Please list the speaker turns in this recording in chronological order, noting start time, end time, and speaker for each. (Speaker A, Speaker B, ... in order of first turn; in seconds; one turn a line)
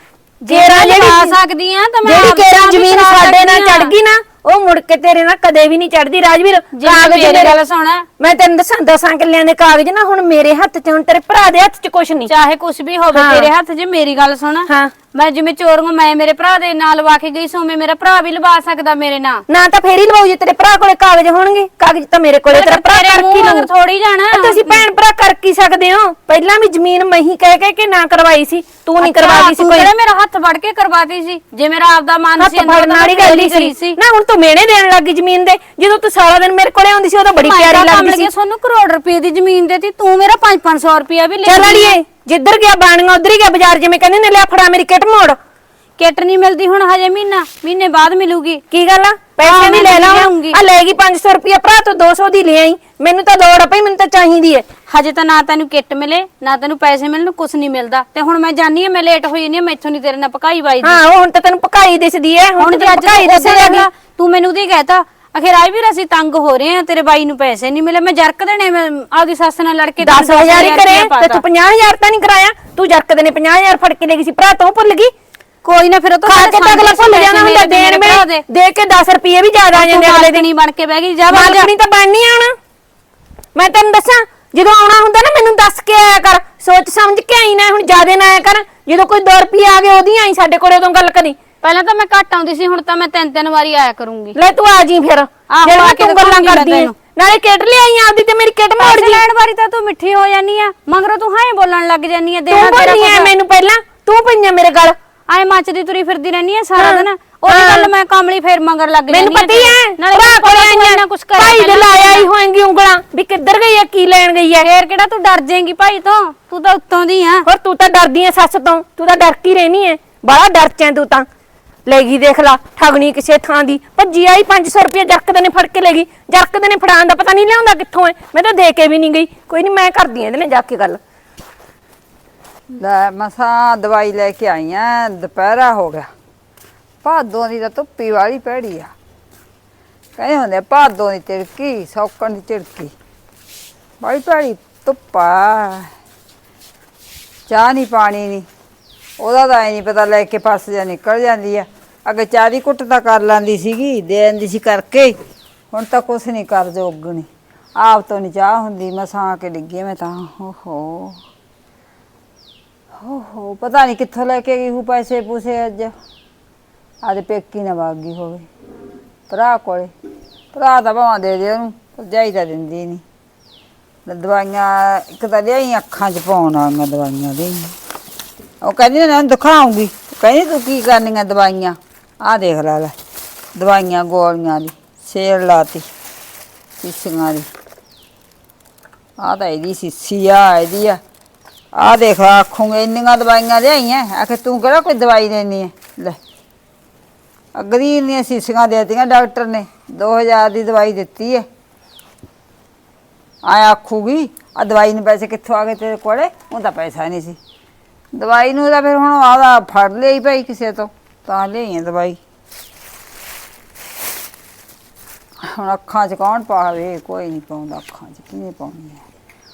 Speaker A: 0.5-3.9
Speaker B: 0.5-1.4
Speaker B: 2.0-7.5
Speaker A: 6.7-8.1
Speaker B: 8.2-12.3
Speaker A: 12.3-19.4
Speaker B: 13.1-13.5
Speaker B: 14.7-14.9
Speaker B: 19.5-23.7
Speaker A: 22.5-24.8
Speaker B: 24.3-29.9
Speaker A: 29.0-34.0
Speaker B: 32.4-38.3
Speaker A: 37.4-42.0
Speaker B: 41.5-45.4
Speaker A: 46.0-48.6
Speaker B: 48.7-54.6
Speaker A: 49.4-50.6
Speaker A: 54.9-61.0
Speaker B: 60.8-63.9
Speaker A: 62.6-71.4
Speaker B: 70.0-75.1
Speaker A: 75.6-78.4
Speaker B: 76.3-80.4
Speaker A: 79.7-81.7
Speaker B: 81.3-82.5
Speaker B: 83.5-91.4
Speaker A: 91.6-94.4
Speaker B: 94.3-99.2
Speaker A: 95.5-96.9
Speaker A: 98.8-103.3
Speaker B: 102.5-105.0
Speaker A: 105.3-112.3
Speaker B: 106.8-107.9
Speaker B: 109.1-114.7
Speaker A: 114.6-117.5
Speaker B: 117.5-121.2
Speaker B: 121.8-131.0
Speaker C: 132.8-136.1
Speaker C: 137.0-138.9
Speaker C: 140.2-142.9
Speaker C: 144.0-145.9
Speaker C: 147.5-148.4
Speaker C: 149.2-155.1
Speaker C: 155.7-161.2
Speaker C: 163.0-165.9
Speaker C: 167.0-168.5
Speaker C: 169.3-169.9
Speaker C: 170.5-173.0
Speaker C: 174.1-177.8
Speaker C: 178.6-182.9
Speaker C: 183.6-185.8
Speaker C: 186.8-187.5
Speaker C: 189.2-191.0
Speaker C: 191.7-196.2
Speaker C: 197.5-201.4
Speaker C: 203.4-207.4
Speaker C: 208.1-212.2
Speaker C: 215.4-219.0